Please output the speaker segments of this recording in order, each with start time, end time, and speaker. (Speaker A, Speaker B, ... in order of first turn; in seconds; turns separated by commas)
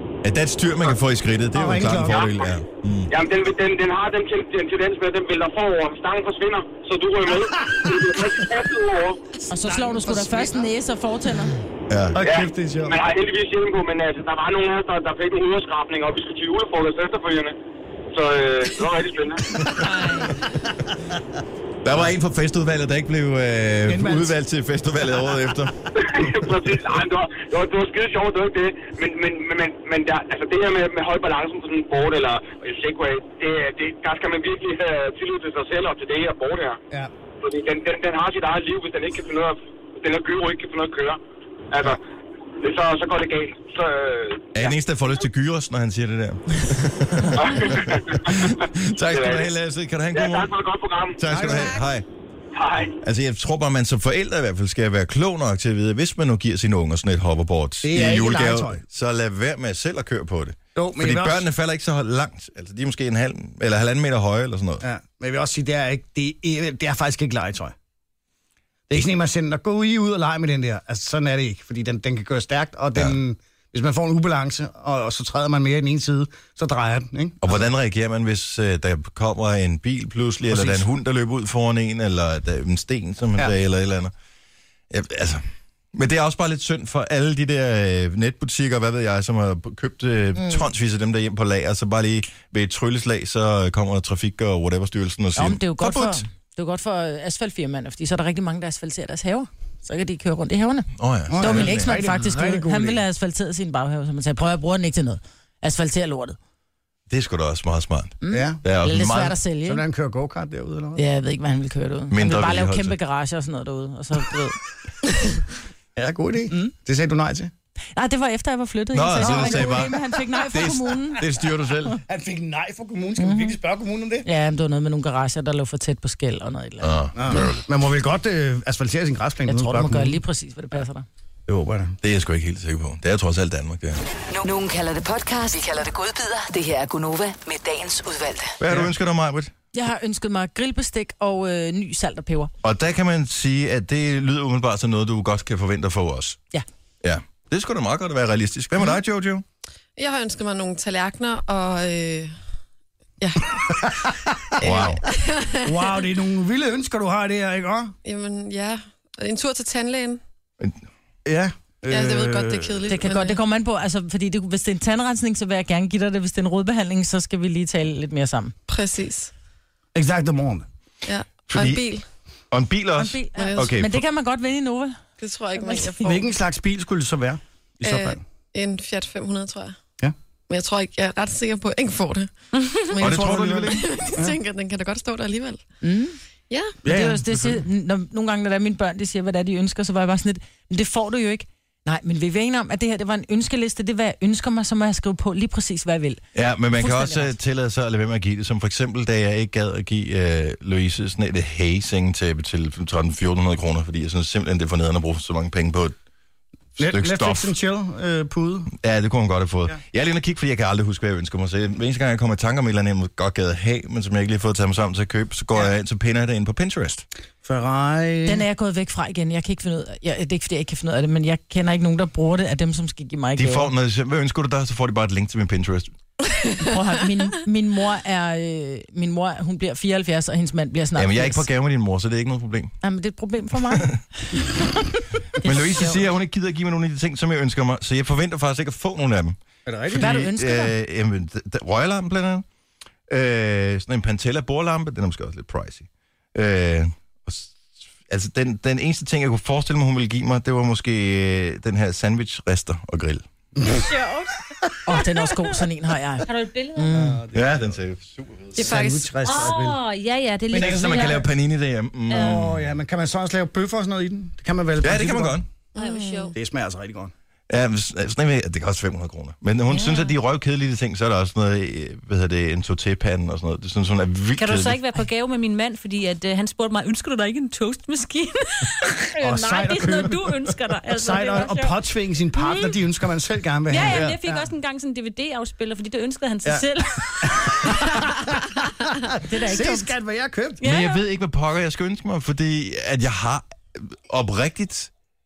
Speaker A: 0.2-3.1, Speaker B: 1.5-2.2, Speaker C: 2.1-2.4, Speaker C: 3.1-9.2, Speaker B: 7.3-8.5, Speaker D: 9.5-11.5, Speaker B: 9.6-10.7, Speaker A: 11.9-12.2, Speaker B: 12.1-13.0, Speaker C: 12.2-17.5, Speaker C: 18.1-19.6, Speaker B: 19.6-19.8, Speaker E: 19.8-20.4, Speaker A: 21.8-25.8, Speaker B: 23.9-24.3, Speaker C: 25.9-36.8, Speaker C: 37.4-41.2, Speaker C: 41.7-42.0, Speaker C: 42.6-44.8, Speaker A: 44.5-50.5, Speaker C: 47.3-49.5, Speaker C: 50.1-51.2, Speaker A: 51.2-52.0, Speaker B: 51.3-51.8, Speaker C: 52.5-53.0, Speaker A: 53.0-64.8, Speaker B: 57.8-58.8, Speaker B: 60.7-61.4, Speaker B: 64.8-67.7, Speaker B: 68.9-77.7, Speaker A: 77.4-84.1, Speaker B: 80.5-80.9, Speaker A: 84.9-96.2, Speaker D: 90.4-90.6, Speaker D: 95.3-106.4, Speaker A: 101.0-102.0, Speaker B: 101.3-103.0, Speaker A: 107.1-109.4, Speaker D: 108.2-109.8, Speaker B: 108.3-108.6, Speaker B: 109.6-111.0, Speaker D: 111.0-114.6, Speaker A: 112.1-113.0, Speaker B: 116.0-117.5, Speaker D: 118.0-121.2, Speaker A: 118.9-122.0, Speaker B: 119.2-120.0, Speaker B: 122.0-124.2, Speaker D: 123.2-123.6, Speaker D: 124.2-127.0, Speaker A: 126.8-127.6, Speaker B: 127.2-130.2, Speaker D: 129.5-131.1, Speaker B: 131.5-131.9, Speaker A: 132.0-134.0, Speaker F: 134.3-138.6, Speaker A: 138.6-139.5, Speaker D: 139.7-142.5, Speaker A: 142.6-146.4, Speaker A: 147.0-149.4, Speaker G: 150.0-152.3, Speaker G: 153.2-153.5, Speaker B: 153.6-154.7, Speaker G: 154.6-155.9, Speaker A: 154.6-155.0, Speaker B: 155.6-157.9, Speaker G: 158.0-160.2, Speaker B: 161.2-162.9, Speaker G: 161.9-163.4, Speaker D: 162.9-168.5, Speaker G: 168.7-169.3, Speaker B: 169.9-170.7, Speaker G: 171.1-172.0, Speaker A: 171.5-171.8, Speaker A: 172.5-174.0, Speaker D: 173.0-175.0, Speaker G: 173.3-173.7, Speaker G: 175.2-176.2, Speaker D: 175.5-176.2, Speaker B: 176.0-178.2, Speaker G: 177.8-179.8, Speaker G: 180.5-185.6, Speaker A: 183.0-184.1, Speaker B: 183.0-184.3, Speaker D: 185.8-186.2, Speaker G: 186.5-186.8, Speaker B: 186.8-187.6, Speaker D: 186.8-197.3, Speaker A: 196.3-205.9, Speaker B: 206.8-208.7, Speaker A: 206.8-207.5, Speaker A: 208.8-217.0, Speaker B: 217.4-218.4, Speaker D: 218.2-223.7, Speaker A: 223.4-225.9, Speaker D: 226.6-231.4, Speaker A: 230.9-232.8, Speaker D: 232.8-236.0, Speaker A: 233.7-234.0, Speaker A: 235.4-239.4, Speaker B: 239.7-240.1, Speaker A: 239.9-242.4, Speaker D: 239.9-240.7, Speaker A: 243.1-253.2, Speaker E: 253.7-254.3, Speaker D: 254.8-257.2, Speaker E: 256.2-256.9, Speaker B: 256.9-257.8, Speaker A: 257.3-258.8, Speaker G: 258.6-259.1, Speaker B: 258.6-259.8, Speaker E: 259.2-261.2, Speaker B: 260.5-261.2, Speaker A: 260.5-262.7, Speaker E: 262.1-262.4, Speaker B: 262.1-265.4, Speaker A: 264.8-265.5, Speaker G: 265.7-266.4, Speaker E: 265.8-266.3, Speaker B: 266.3-267.1, Speaker A: 267.5-274.9, Speaker E: 269.7-270.1, Speaker E: 274.4-281.8, Speaker B: 279.2-284.5, Speaker E: 282.3-282.7, Speaker E: 283.7-288.1, Speaker A: 283.9-284.2, Speaker B: 287.2-290.6, Speaker D: 289.3-289.9, Speaker E: 290.6-291.0, Speaker A: 290.6-294.9